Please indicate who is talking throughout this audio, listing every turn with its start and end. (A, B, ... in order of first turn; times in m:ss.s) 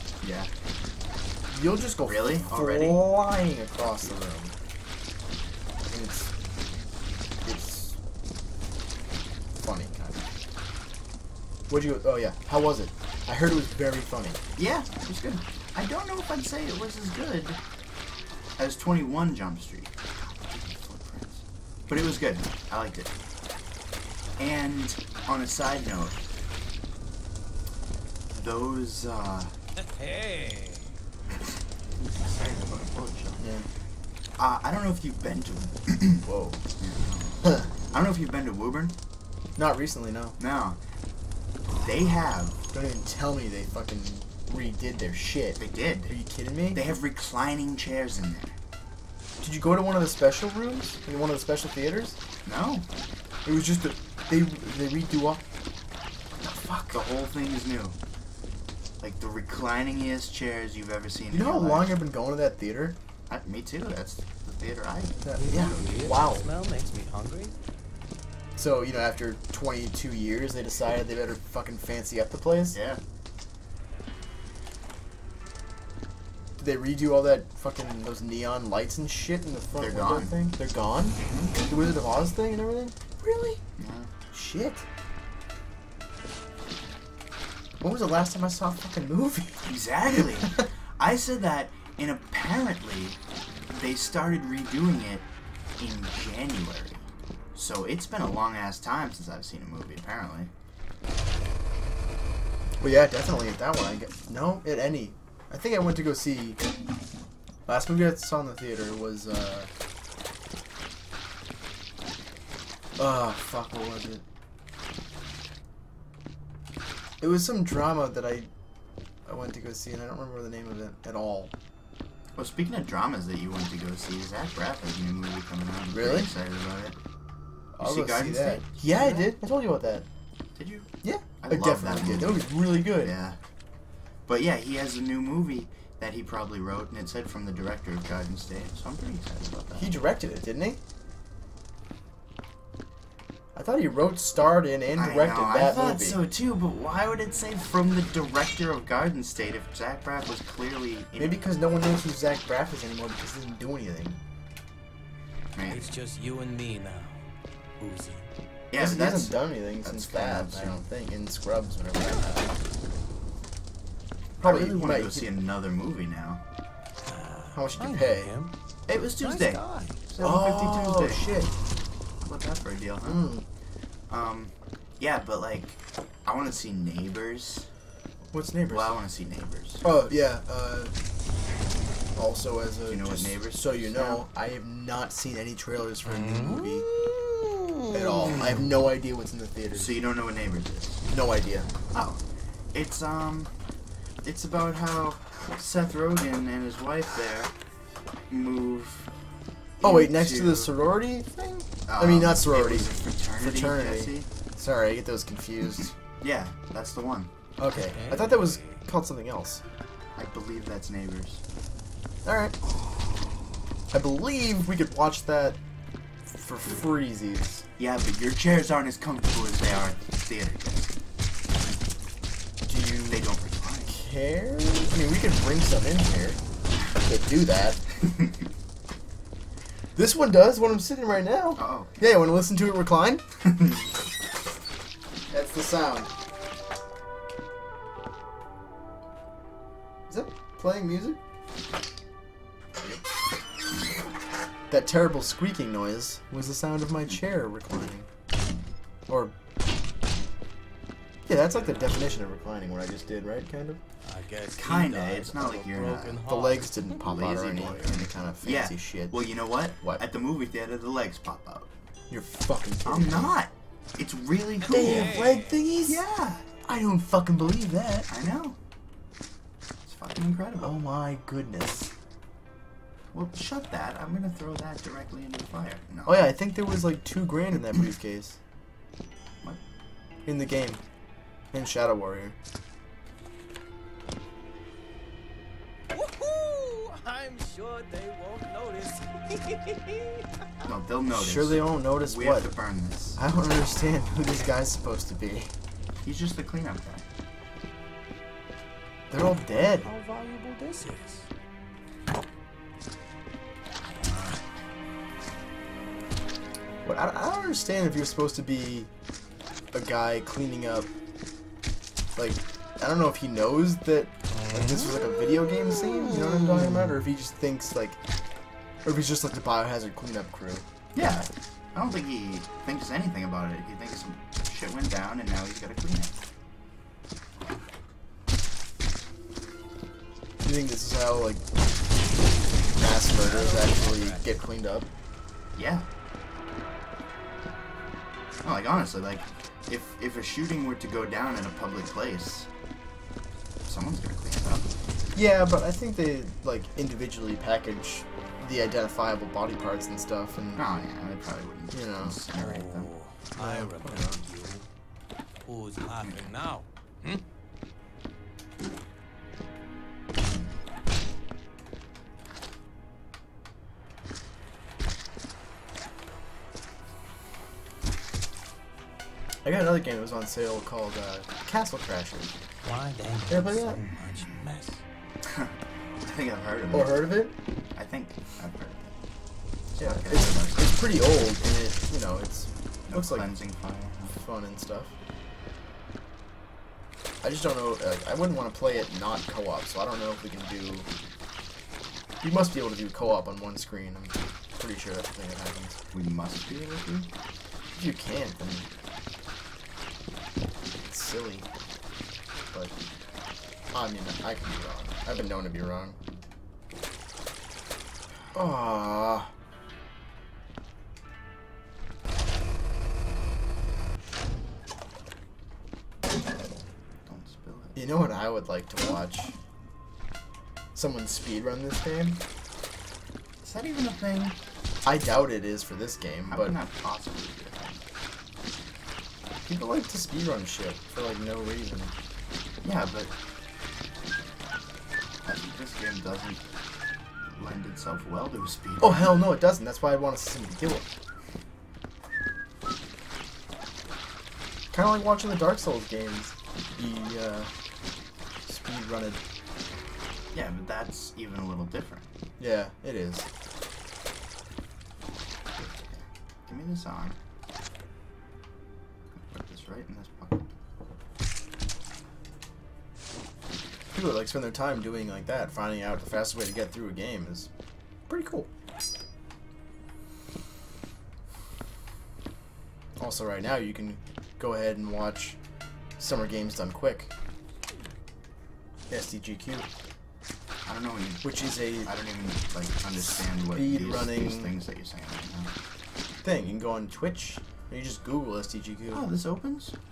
0:00.2-0:00.5 A
0:01.5-0:04.5 B
0:02.0-0:03.1 A
0:05.9-0:06.3 B
0:07.4-0:08.0 B
0:09.6-0:10.2 B
0:11.7-0:14.4 B
0:14.6-0:17.6 A
0:18.6-0:23.1 A
0:24.4-0:26.2 A
0:28.3-0:29.6 A
0:29.8-0:31.0 C
0:32.0-0:33.4 A
0:33.4-0:33.7 B
0:34.4-0:36.2 A
0:36.2-0:36.6 B
0:36.8-0:39.0 A
0:39.6-0:40.4 B
0:40.4-0:40.8 A
0:41.8-0:42.6 A
0:42.7-0:46.9 B
0:45.6-0:46.1 A
0:46.7-0:48.6 A
0:49.4-0:52.2 B
0:52.4-0:52.9 A
0:53.4-0:55.4 B
0:56.4-0:57.0 B
0:56.9-0:58.0 A
0:59.0-1:02.0 A
1:01.3-1:03.0 B
1:03.3-1:05.8 A
1:05.2-1:06.5 B
1:05.4-1:07.5 C
1:08.6-1:12.8 B
1:12.7-1:13.0 A
1:16.6-1:23.6 B
1:19.8-1:20.4 A
1:21.3-1:21.5 A
1:23.8-1:24.1 A
1:24.3-1:24.8 B
1:27.8-1:30.6 B
1:29.7-1:35.3 A
1:35.8-1:40.5 A
1:42.8-1:46.6 B
1:47.7-1:49.7 B
1:53.0-1:54.2 B
1:57.2-1:58.5 B
1:59.3-2:01.5 B
2:02.4-2:07.0 A
2:05.9-2:06.3 B
2:07.8-2:10.1 B
2:07.8-2:09.3 A
2:10.6-2:10.9 A
2:11.0-2:13.1 B
2:11.4-2:13.4 A
2:14.3-2:20.0 A
2:19.8-2:20.8 B
2:23.6-2:26.2 B
2:24.9-2:31.4 A
2:31.2-2:34.2 B
2:35.6-2:35.9 A
2:35.7-2:37.2 C
2:37.8-2:38.3 C
2:38.7-2:40.8 A
2:38.8-2:42.4 B
2:42.1-2:42.4 C
2:44.4-2:46.4 A
2:44.4-2:45.3 B
2:47.0-2:48.5 C
2:47.5-2:48.3 B
2:48.9-2:51.3 A
2:49.2-2:50.0 C
2:50.2-2:51.5 B
2:52.2-2:53.3 A
2:53.0-2:53.4 B
2:54.1-2:57.7 A
2:58.3-2:59.0 B
2:58.7-2:59.8 A
2:59.8-3:00.9 B
3:02.2-3:06.9 B
3:02.9-3:04.2 A
3:06.1-3:08.5 C
3:07.9-3:10.0 B
3:09.7-3:11.0 A
3:11.1-3:11.7 B
3:11.9-3:12.2 A
3:12.7-3:13.5 A
3:14.2-3:17.5 A
3:18.3-3:19.1 A
3:19.8-3:20.8 A
3:19.8-3:25.9 B
3:21.9-3:24.3 A
3:26.2-3:27.3 A
3:27.6-3:29.6 B
3:27.7-3:28.8 C
3:30.2-3:31.4 A
3:32.2-3:32.6 B
3:33.9-3:35.6 B
3:36.3-3:37.6 B
3:37.8-3:40.9 A
3:42.6-3:43.3 B
3:43.1-3:43.9 A
3:43.9-3:46.4 B
3:47.0-3:47.8 B
3:50.0-3:53.2 B
3:51.6-3:51.9 A
3:55.3-3:56.1 B
4:00.1-4:01.2 B
4:04.7-4:08.1 B
4:09.1-4:09.3 B
4:11.3-4:13.8 B
4:14.0-4:17.0 C
4:14.5-4:16.2 A
4:16.2-4:19.3 B
4:17.0-4:21.7 A
4:22.1-4:23.3 B
4:22.8-4:25.3 A
4:24.7-4:26.0 B
4:24.7-4:25.6 C
4:25.9-4:26.5 A
4:26.6-4:28.1 B
4:28.1-4:28.6 A
4:29.8-4:30.8 A
4:30.6-4:31.9 B
4:33.1-4:36.3 A
4:36.1-4:38.4 B
4:40.3-4:40.8 B
4:41.5-4:42.4 B
4:45.9-4:50.7 C
4:50.7-4:53.2 A
4:51.1-4:52.5 B
4:53.2-4:55.5 B
4:56.0-4:57.1 A
4:59.1-4:59.9 B
4:59.1-5:01.3 C
5:03.8-5:04.4 C
5:06.8-5:08.9 B
5:09.7-5:10.9 B
5:12.2-5:18.0 B
5:14.5-5:14.9 C
5:15.5-5:16.8 C
5:18.8-5:20.6 B
5:20.9-5:26.1 A
5:30.4-5:31.4 B
5:32.8-5:34.9 B
5:33.1-5:34.2 C
5:35.6-5:35.9 A
5:38.4-5:42.5 A
5:43.7-5:44.7 A
5:45.2-5:50.6 B
5:50.6-5:52.9 A
5:51.7-5:52.2 B
5:52.3-5:54.7 C
5:53.4-5:54.2 B
5:55.4-5:57.2 C
6:09.4-6:12.3 B
6:12.6-6:14.8 C
6:13.3-6:13.8 B
6:15.2-6:17.0 A
6:16.7-6:17.3 B
6:17.8-6:19.0 A
6:19.8-6:20.7 A
6:19.8-6:23.3 B
6:22.9-6:24.2 A
6:24.1-6:24.9 B
6:27.2-6:30.9 B
6:32.2-6:35.8 B
6:35.9-6:37.1 A
6:37.8-6:38.7 B
6:40.7-6:41.5 B
6:43.7-6:46.0 B
6:48.3-6:49.3 B
6:57.1-6:57.8 A
6:57.8-6:59.3 B
7:00.8-7:02.2 B
7:03.4-7:04.4 A
7:04.8-7:06.6 B
7:06.3-7:07.8 A
7:09.4-7:11.9 B
7:12.6-7:13.1 A
7:15.2-7:16.4 A
7:17.3-7:19.3 A
7:18.8-7:20.9 B
7:24.7-7:27.5 B
7:28.5-7:29.2 B
7:30.3-7:32.1 A
7:32.4-7:33.3 B
7:35.6-7:37.2 A
7:39.2-7:40.4 A
7:43.9-7:47.5 B
7:48.1-7:48.5 B
7:53.0-7:55.4 B
7:56.0-7:57.1 B
7:58.9-7:59.7 B
8:00.6-8:05.5 A
8:01.2-8:01.9 B
8:03.4-8:04.6 B
8:06.2-8:09.1 B
8:08.9-8:09.8 A